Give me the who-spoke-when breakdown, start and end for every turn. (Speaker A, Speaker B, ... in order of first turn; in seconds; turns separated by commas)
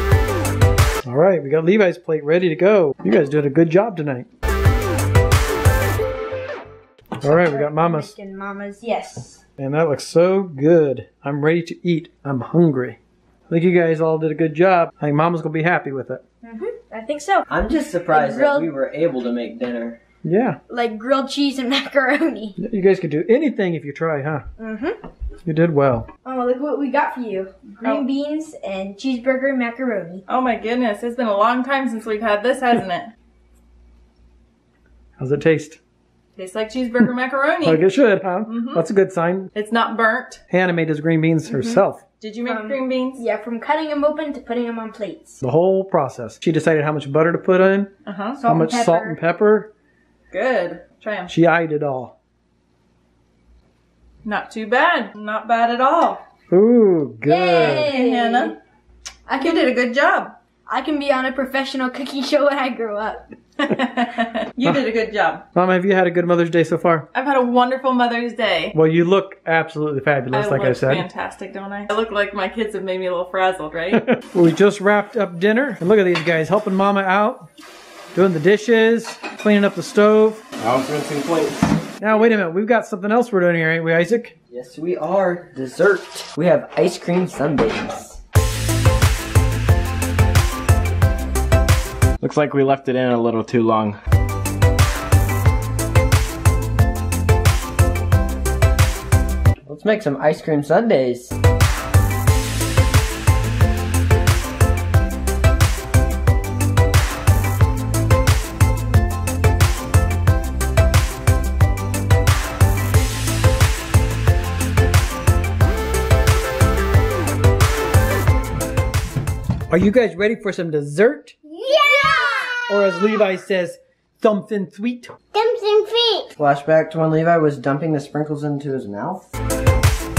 Speaker A: 1.0-4.3, Speaker A: 7.2-8.1, Speaker B: 7.2-9.4, Speaker A: 9.6-13.0, Speaker A: 13.5-16.2, Speaker B: 16.4-17.5, Speaker C: 17.5-20.0, Speaker B: 18.1-18.7, Speaker A: 20.2-20.6, Speaker B: 20.7-22.6, Speaker A: 22.6-24.5, Speaker B: 24.6-25.0, Speaker A: 25.5-26.1, Speaker B: 26.2-30.2, Speaker D: 27.8-28.1, Speaker D: 30.3-33.1, Speaker A: 35.2-35.8, Speaker D: 36.4-37.9, Speaker A: 37.6-39.5, Speaker D: 38.5-38.8, Speaker D: 39.5-40.4, Speaker A: 40.5-42.0, Speaker B: 41.5-41.8, Speaker D: 42.2-43.2, Speaker B: 42.5-45.4, Speaker A: 45.4-47.9, Speaker D: 48.0-48.4, Speaker B: 48.4-49.2, Speaker A: 48.5-49.7, Speaker D: 50.3-51.3, Speaker A: 51.3-52.1, Speaker D: 54.2-56.2, Speaker A: 56.5-57.9, Speaker B: 57.3-58.5, Speaker D: 57.6-58.5, Speaker B: 59.3-59.7, Speaker D: 59.4-60.3, Speaker B: 60.7-63.4, Speaker D: 63.6-65.5, Speaker A: 65.5-67.1, Speaker D: 67.1-68.8, Speaker A: 68.7-71.1, Speaker D: 70.3-74.1, Speaker A: 73.9-77.5, Speaker A: 78.1-80.4, Speaker E: 80.6-81.8, Speaker A: 82.0-84.3, Speaker C: 84.5-88.2, Speaker E: 92.2-94.0, Speaker C: 99.7-101.4, Speaker A: 119.7-121.4, Speaker F: 121.5-123.2, Speaker A: 122.7-125.2, Speaker F: 125.3-126.3, Speaker C: 126.4-129.3